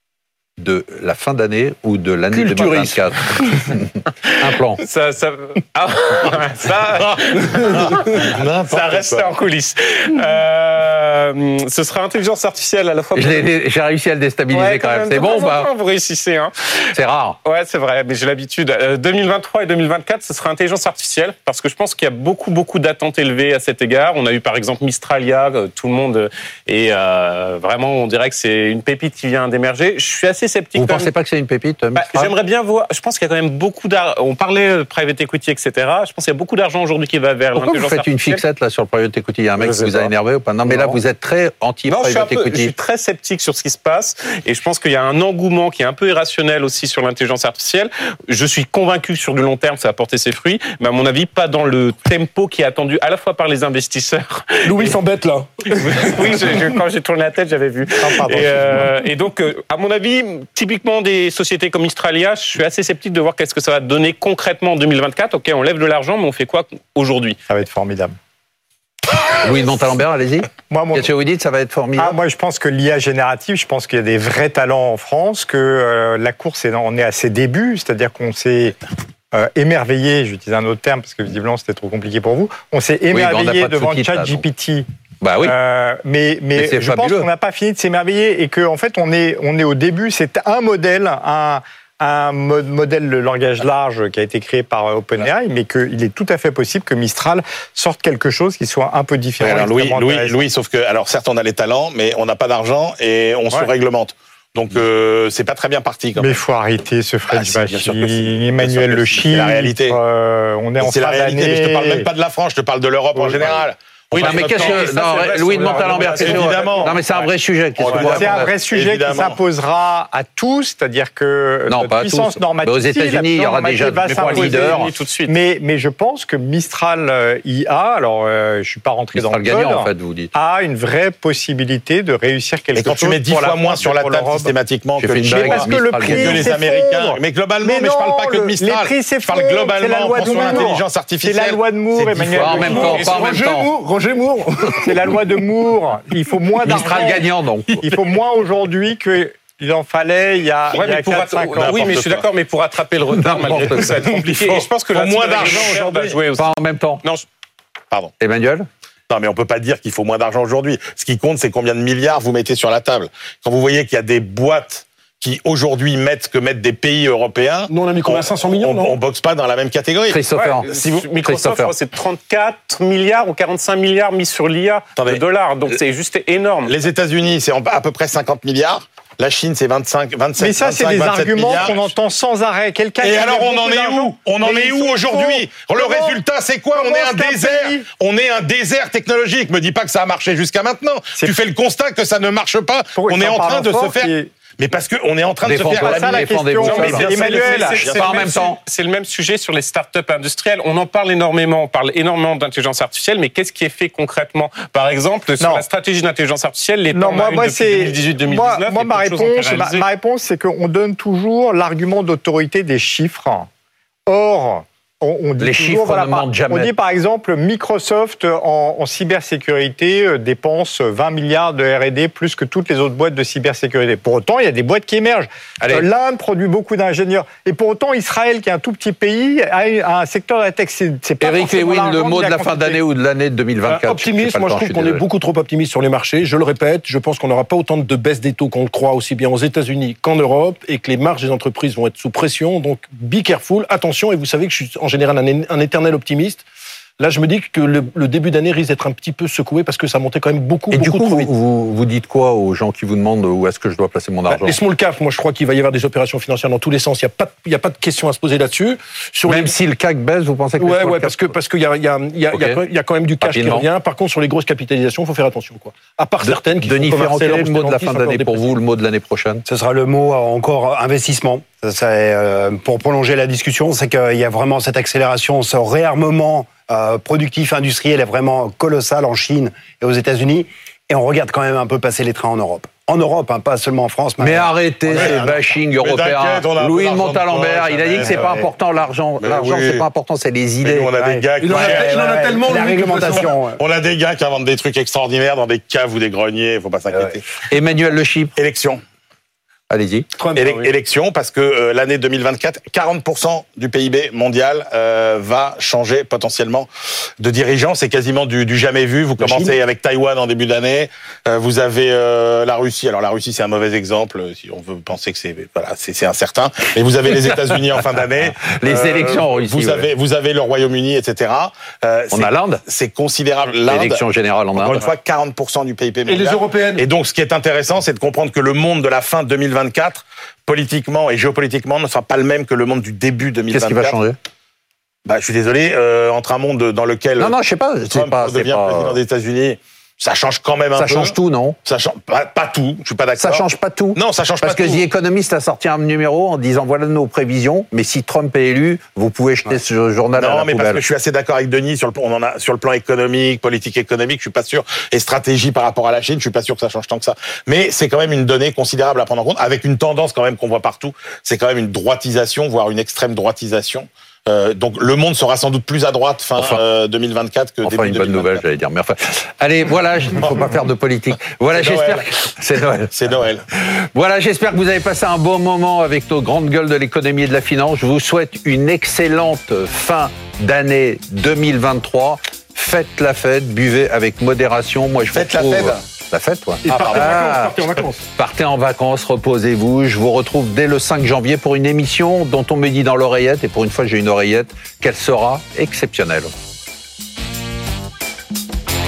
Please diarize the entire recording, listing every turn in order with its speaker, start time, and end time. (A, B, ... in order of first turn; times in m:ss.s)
0:00.6-0:04.8 A
0:02.3-0:03.1 B
0:04.8-0:13.5 C
0:07.0-0:09.4 D
0:13.1-0:15.7 A
0:14.5-0:16.8 C
0:16.9-0:17.4 A
0:17.4-0:31.1 C
0:30.8-0:32.3 A
0:32.0-0:38.4 C
0:37.5-0:42.7 A
0:39.6-0:40.1 C
0:41.9-0:55.0 C
0:54.6-0:56.6 B
0:55.7-1:07.4 C
0:58.0-0:58.9 E
1:07.5-1:08.2 E
1:09.4-1:12.2 A
1:10.7-1:11.1 E
1:12.0-1:18.8 E
1:19.3-1:24.8 E
1:23.1-1:24.4 A
1:25.2-1:25.6 A
1:25.4-1:40.4 E
1:26.6-1:27.3 A
1:39.4-1:46.4 D
1:46.2-1:52.1 E
1:47.3-1:50.0 D
1:50.8-1:59.4 D
1:53.2-1:53.5 E
1:54.1-1:58.5 A
1:54.2-1:57.3 C
1:57.9-2:14.5 E
2:01.7-2:04.9 A
2:04.0-2:05.3 C
2:09.1-2:10.3 A
2:12.7-2:22.7 D
2:15.0-2:16.5 A
2:15.2-2:23.0 E
2:22.2-2:23.7 A
2:22.6-2:25.2 B
2:22.8-2:23.2 C
2:24.8-2:27.2 E
2:26.6-2:28.0 A
2:27.8-2:32.0 E
2:30.7-2:37.2 C
2:31.5-2:32.3 D
2:33.1-2:34.1 A
2:34.2-2:36.2 D
2:36.4-2:37.0 A
2:38.2-2:38.7 A
2:39.1-2:50.2 D
2:47.7-2:49.0 B
2:50.1-2:51.7 A
2:50.3-2:56.8 C
2:55.0-2:55.2 D
2:56.6-3:01.9 D
3:00.4-3:06.2 E
3:03.0-3:18.4 D
3:06.7-3:07.9 E
3:12.9-3:14.3 E
3:15.4-3:18.6 A
3:15.7-3:17.8 E
3:16.6-3:29.8 C
3:25.4-3:25.6 E
3:26.9-3:33.5 E
3:34.1-3:52.8 E
3:35.4-3:36.7 A
3:45.6-3:45.9 A
3:51.2-3:55.0 A
3:53.7-4:06.4 B
4:07.0-4:11.3 B
4:10.7-4:14.6 A
4:14.3-4:19.5 B
4:19.3-4:21.4 A
4:20.6-4:28.5 B
4:22.3-4:22.6 A
4:23.2-4:23.7 A
4:26.2-4:29.4 A
4:29.4-4:45.1 F
4:44.2-4:51.2 A
4:44.8-4:48.5 D
4:48.0-4:48.4 F
4:49.2-4:49.8 D
4:50.6-4:52.0 D
4:51.4-4:53.3 B
4:51.4-4:53.6 F
4:53.6-4:57.2 D
4:57.5-4:58.4 A
4:58.4-4:58.8 D
4:59.7-5:00.1 A
5:00.2-5:00.7 B
5:00.3-5:06.7 D
5:07.2-5:34.0 D
5:09.2-5:09.5 F
5:17.1-5:17.8 A
5:18.4-5:19.9 A
5:22.1-5:22.6 A
5:23.7-5:24.9 A
5:26.0-5:26.8 B
5:33.5-5:34.2 A
5:35.0-5:37.4 D
5:37.2-5:39.0 A
5:37.9-5:44.8 D
5:40.7-5:41.6 A
5:43.2-5:50.8 A
5:50.2-6:08.4 D
6:06.4-6:06.6 A
6:07.6-6:12.9 A
6:11.5-6:12.1 D
6:12.9-6:13.4 D
6:13.6-6:27.6 A
6:25.1-6:25.8 D
6:26.6-6:28.0 B
6:26.6-6:27.2 D
6:28.2-6:36.3 A